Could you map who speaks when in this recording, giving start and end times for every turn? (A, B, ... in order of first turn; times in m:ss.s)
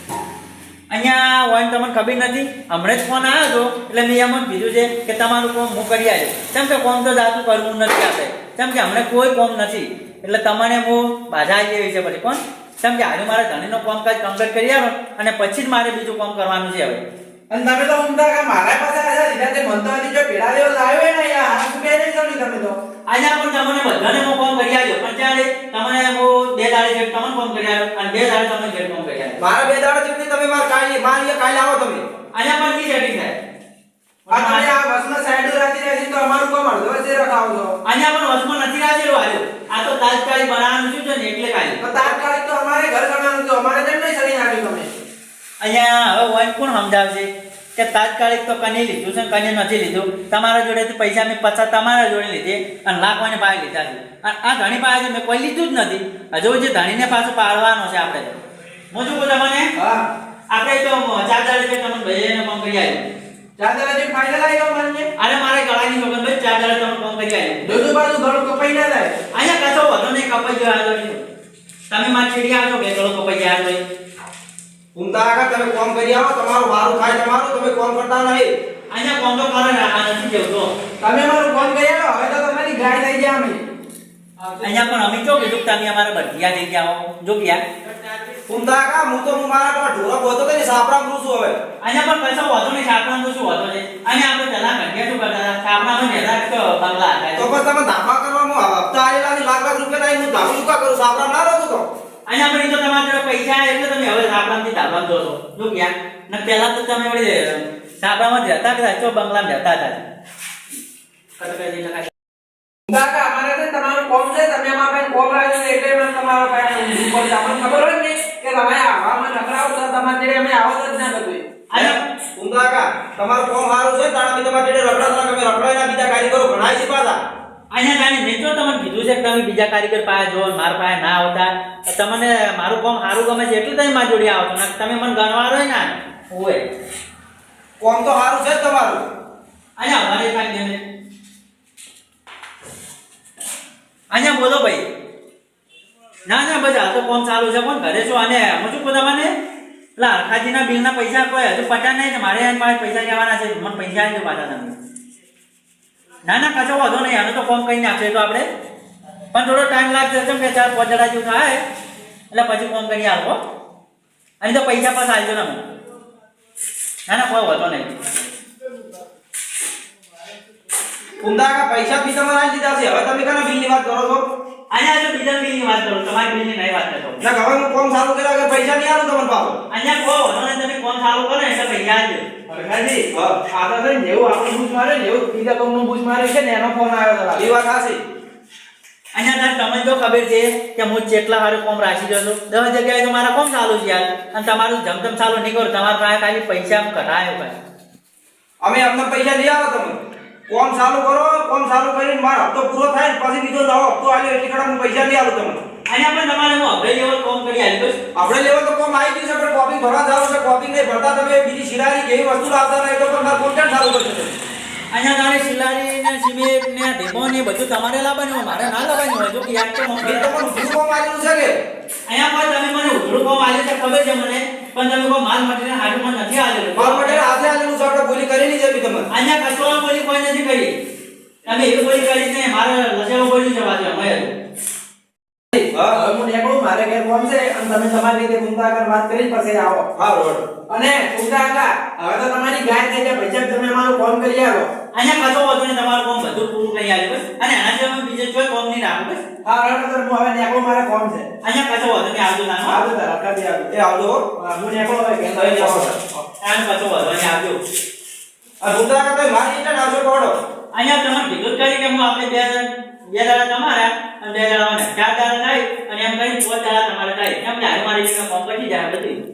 0:00.9-0:17.0 A
0:17.5-0:22.8 B
0:23.1-0:29.4 A
0:29.4-0:32.0 C
0:32.3-0:33.3 A
0:34.3-0:34.7 A
0:34.3-0:37.7 B
0:37.8-0:41.8 A
0:41.8-0:44.9 B
0:45.6-0:58.4 A
0:58.9-0:59.7 A
0:59.8-1:00.0 B
1:00.5-1:03.1 A
1:03.6-1:05.1 B
1:05.2-1:07.8 A
1:07.6-1:09.1 B
1:09.3-1:11.2 A
1:11.9-1:13.8 A
1:14.9-1:18.5 C
1:18.9-1:20.7 A
1:21.0-1:23.6 B
1:24.4-1:25.0 B
1:24.6-1:27.7 A
1:27.8-1:28.4 B
1:28.5-1:31.6 C
1:31.8-1:37.5 A
1:37.4-1:41.8 C
1:42.3-1:50.0 A
1:51.4-1:52.1 A
1:52.9-2:01.4 B
2:01.7-2:02.0 A
2:01.7-2:07.2 C
2:07.7-2:16.6 A
2:17.8-2:19.0 C
2:19.8-2:20.8 A
2:24.1-2:24.8 A
2:26.2-2:29.3 A
2:30.0-2:34.7 A
2:36.2-2:38.5 A
2:39.3-2:41.6 A
2:42.3-2:43.4 A
2:44.4-2:45.6 A
2:47.1-2:48.0 A
2:51.2-2:54.2 C
2:54.7-2:57.2 A
2:57.2-2:59.6 C
2:59.7-3:02.2 A
3:02.5-3:07.5 B
3:03.1-3:03.4 C
3:07.4-3:08.0 C
3:09.1-3:17.5 A
3:18.6-3:20.0 C
3:20.5-3:25.6 C
3:25.9-3:28.0 A
3:28.1-3:34.3 C
3:34.9-3:40.3 A
3:40.0-3:41.5 C
3:42.1-3:47.3 A
3:46.8-3:49.1 C
3:49.1-3:50.7 A
3:51.4-3:54.3 A
3:55.5-3:56.0 C
3:55.9-3:59.9 B
4:00.0-4:00.5 C
4:00.7-4:04.7 B
4:04.9-4:09.2 A
4:09.4-4:11.3 B
4:11.4-4:12.8 A
4:12.7-4:13.7 B
4:13.7-4:14.2 C
4:14.4-4:16.2 B
4:15.3-4:15.9 C
4:16.4-4:17.6 A
4:18.6-4:20.3 C
4:20.7-4:29.2 A